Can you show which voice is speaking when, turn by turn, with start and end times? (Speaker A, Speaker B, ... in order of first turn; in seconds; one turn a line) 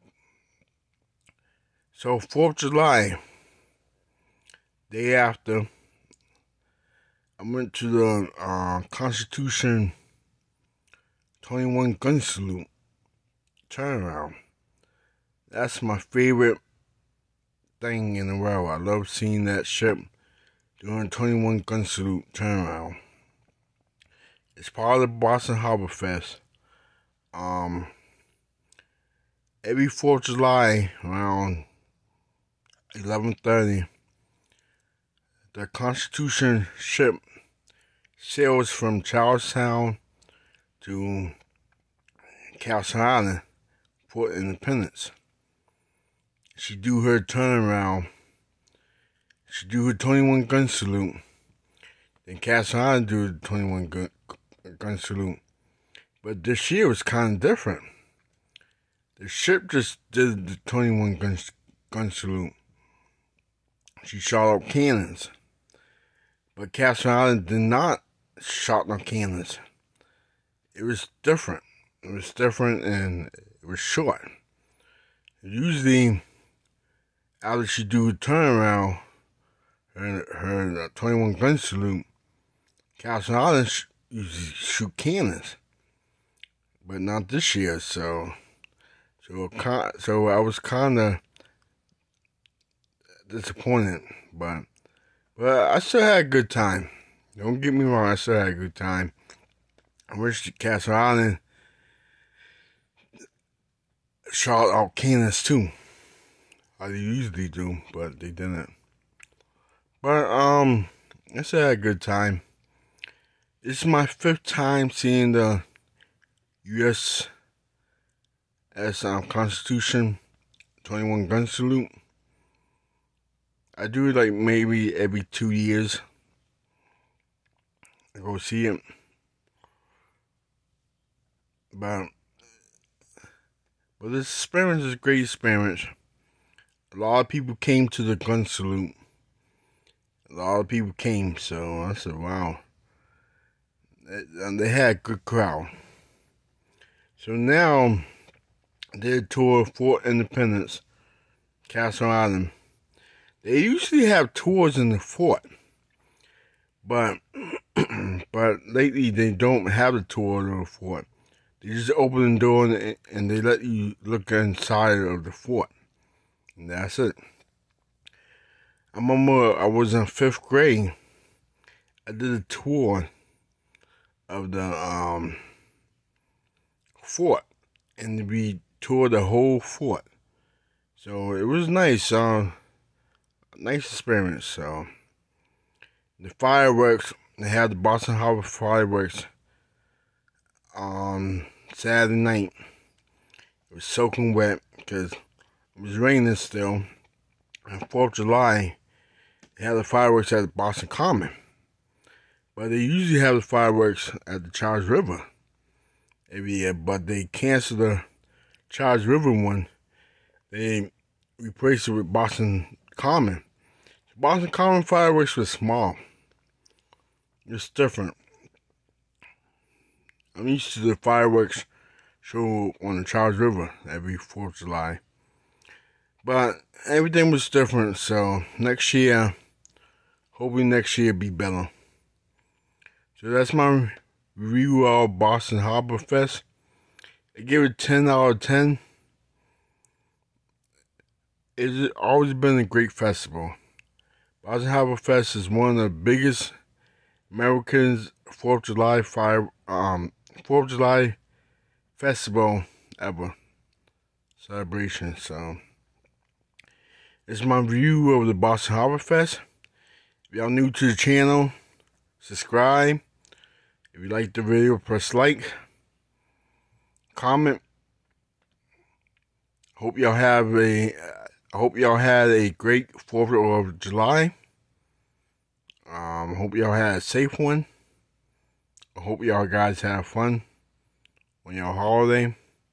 Speaker A: 1.9-3.2
Speaker A: 4.9-5.7
Speaker A: 7.4-9.9
Speaker A: 11.4-12.7
Speaker A: 13.7-14.4
Speaker A: 15.5-16.6
Speaker A: 17.8-20.1
Speaker A: 20.8-23.0
Speaker A: 24.6-26.4
Speaker A: 27.3-27.9
Speaker A: 29.6-31.7
Speaker A: 32.9-33.9
Speaker A: 35.5-37.2
Speaker A: 38.2-40.0
Speaker A: 40.8-41.4
Speaker A: 42.5-43.4
Speaker A: 44.1-45.1
Speaker A: 46.6-48.1
Speaker A: 49.5-51.2
Speaker A: 52.2-55.4
Speaker A: 56.2-57.8
Speaker A: 59.2-62.5
Speaker A: 64.0-65.3
Speaker A: 66.6-69.6
Speaker A: 70.8-74.2
Speaker A: 75.4-76.2
Speaker A: 77.4-79.0
Speaker A: 79.9-82.1
Speaker A: 83.0-85.6
Speaker A: 86.8-88.3
Speaker A: 89.2-91.2
Speaker A: 93.3-94.7
Speaker A: 95.4-99.1
Speaker A: 100.1-101.4
Speaker A: 104.3-105.7
Speaker A: 106.8-108.7
Speaker A: 110.0-112.4
Speaker A: 113.6-115.6
Speaker A: 116.6-117.3
Speaker A: 118.7-120.2
Speaker A: 120.8-121.9
Speaker A: 123.8-126.0
Speaker A: 128.1-128.8
Speaker A: 131.7-132.1
Speaker A: 134.0-135.9
Speaker A: 136.9-139.0
Speaker A: 140.3-142.6
Speaker A: 144.1-145.7
Speaker A: 147.2-148.1
Speaker A: 148.9-150.8
Speaker A: 151.7-152.5
Speaker A: 153.4-155.4
Speaker A: 156.8-161.1
Speaker A: 161.6-165.7
Speaker A: 166.6-167.2
Speaker A: 168.9-170.9
Speaker A: 172.1-173.1
Speaker A: 174.3-175.4
Speaker A: 177.0-177.4
Speaker A: 178.0-180.1
Speaker A: 180.9-182.6
Speaker A: 183.6-184.9
Speaker A: 186.2-189.3
Speaker A: 190.7-192.5
Speaker A: 193.7-195.2
Speaker A: 195.8-196.9
Speaker A: 197.7-198.8
Speaker A: 199.6-201.3
Speaker A: 202.6-205.3
Speaker A: 206.3-208.1
Speaker A: 208.7-209.7
Speaker A: 210.5-213.4
Speaker A: 214.1-216.0
Speaker A: 217.4-218.2
Speaker A: 220.3-221.7
Speaker A: 222.2-225.0
Speaker A: 226.2-229.3
Speaker A: 230.3-231.7
Speaker A: 233.2-236.4
Speaker A: 237.3-238.8
Speaker A: 241.6-243.6
Speaker A: 244.4-246.5
Speaker A: 247.3-251.2
Speaker A: 251.9-253.4
Speaker A: 254.4-255.6
Speaker A: 257.3-259.4
Speaker A: 260.3-261.5
Speaker A: 262.2-263.0
Speaker A: 263.9-265.5
Speaker A: 267.1-267.6
Speaker A: 269.8-274.4
Speaker A: 275.9-277.7
Speaker A: 278.9-280.4
Speaker A: 281.4-282.4